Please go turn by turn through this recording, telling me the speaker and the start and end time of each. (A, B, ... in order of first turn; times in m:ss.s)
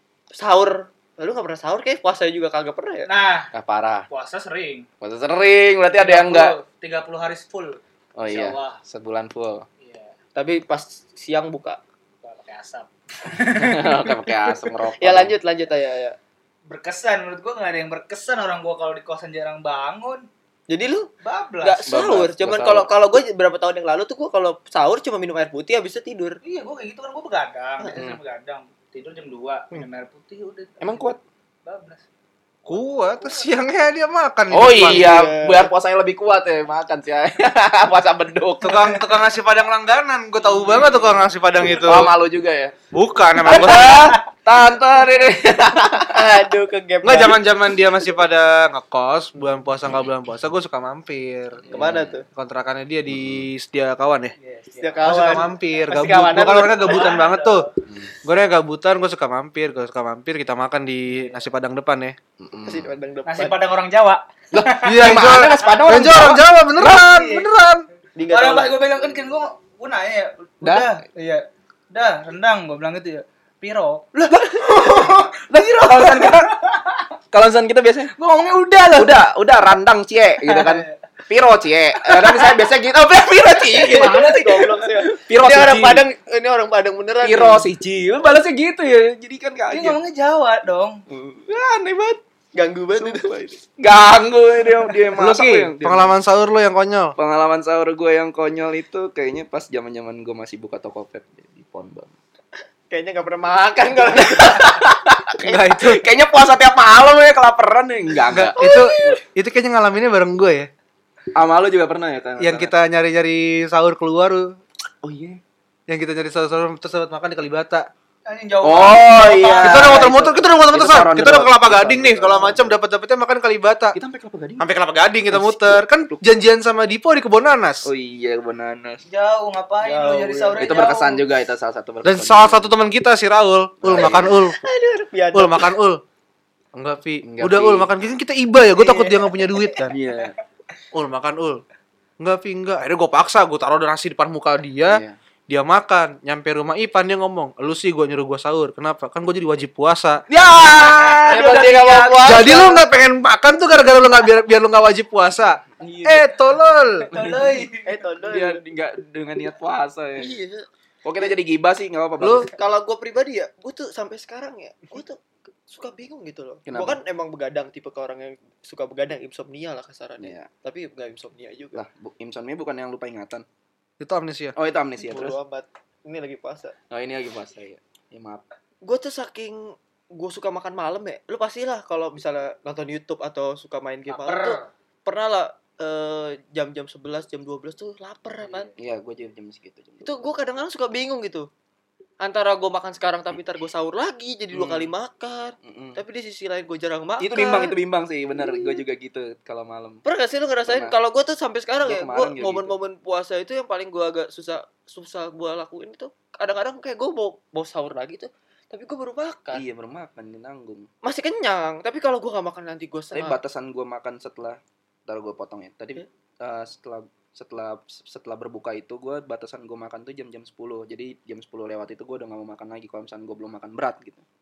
0:00.3-0:03.1 A
0:03.1-0:03.5 B
0:03.5-0:04.1 C
0:04.1-0:04.9 B
0:05.0-0:06.6 C
0:06.0-0:08.8 B
0:08.2-0:09.7 C
0:09.8-0:10.1 B
0:10.4-0:11.8 A
0:12.2-0:14.2 B
0:13.6-0:15.4 C
0:15.0-0:16.2 A
0:16.7-0:20.3 B
0:20.7-0:21.1 A
0:21.2-0:21.9 B
0:21.6-0:26.4 A
0:21.9-0:22.9 C
0:26.4-0:32.0 B
0:27.9-0:28.2 C
0:30.8-0:31.2 C
0:32.6-0:35.1 D
0:34.5-0:38.8 C
0:34.8-0:35.7 A
0:38.6-0:42.2 D
0:40.4-0:41.2 B
0:41.8-0:42.8 C
0:42.9-0:44.2 D
0:43.4-0:46.2 C
0:46.1-0:47.4 A
0:47.0-0:51.8 D
0:51.6-0:52.2 C
0:51.7-0:52.2 A
0:52.3-0:54.4 D
0:53.1-0:53.5 C
0:54.4-0:55.2 B
0:54.8-0:57.1 A
0:55.0-0:57.7 D
0:56.8-0:57.7 B
0:58.2-1:02.2 D
1:02.4-1:02.9 C
1:02.6-1:03.6 A
1:03.2-1:05.4 B
1:04.5-1:07.1 C
1:04.8-1:07.9 D
1:06.8-1:07.5 B
1:08.2-1:08.8 A
1:08.3-1:17.0 B
1:10.6-1:10.9 C
1:14.2-1:16.6 C
1:17.3-1:26.1 C
1:18.2-1:19.2 B
1:20.5-1:20.9 B
1:22.1-1:22.5 B
1:23.8-1:24.6 B
1:23.9-1:27.7 A
1:27.2-1:30.0 C
1:29.7-1:31.0 B
1:31.1-1:32.2 C
1:32.5-1:33.3 A
1:33.0-1:36.1 C
1:35.2-1:37.2 D
1:37.2-1:42.1 C
1:42.9-1:44.8 A
1:44.2-1:49.2 C
1:45.4-1:46.0 D
1:48.3-1:50.7 D
1:48.6-1:49.2 A
1:51.3-1:52.7 C
1:52.4-1:54.6 D
1:55.0-1:55.4 C
1:55.9-1:57.9 D
1:58.3-2:00.0 B
1:58.6-2:02.8 C
1:59.6-2:04.0 D
2:03.9-2:04.7 C
2:04.6-2:07.9 D
2:05.3-2:06.2 C
2:07.8-2:09.0 C
2:09.1-2:11.3 B
2:09.8-2:10.7 A
2:10.6-2:12.8 C
2:12.0-2:14.6 D
2:13.8-2:14.5 C
2:14.0-2:15.7 A
2:15.3-2:16.0 D
2:16.7-2:20.0 D
2:17.2-2:17.9 C
2:18.8-2:19.5 A
2:19.9-2:20.4 C
2:20.9-2:21.6 D
2:22.2-2:30.2 D
2:24.9-2:25.2 C
2:30.3-2:32.8 C
2:30.6-2:32.3 B
2:31.3-2:31.6 A
2:32.2-2:37.1 D
2:37.1-2:38.0 B
2:37.8-2:38.6 A
2:38.3-2:40.4 C
2:40.2-2:40.7 A
2:41.0-2:42.5 C
2:42.2-2:42.5 D
2:42.5-2:51.8 A
2:46.7-2:47.0 C
2:50.2-2:50.5 C
2:51.7-2:53.4 C
2:54.0-2:54.6 D
2:54.6-2:55.4 C
2:55.0-2:56.7 A
2:56.9-2:58.4 C
2:58.8-3:08.7 A
3:04.1-3:04.7 B
3:08.8-3:10.2 C
3:10.0-3:11.5 A
3:12.2-3:17.8 A
3:14.5-3:14.9 C
3:15.6-3:16.0 C
3:17.2-3:20.0 C
3:18.4-3:18.8 A
3:20.0-3:29.6 A
3:20.7-3:21.0 C
3:21.8-3:22.8 C
3:29.5-3:30.9 C
3:31.0-3:33.4 A
3:33.1-3:44.2 C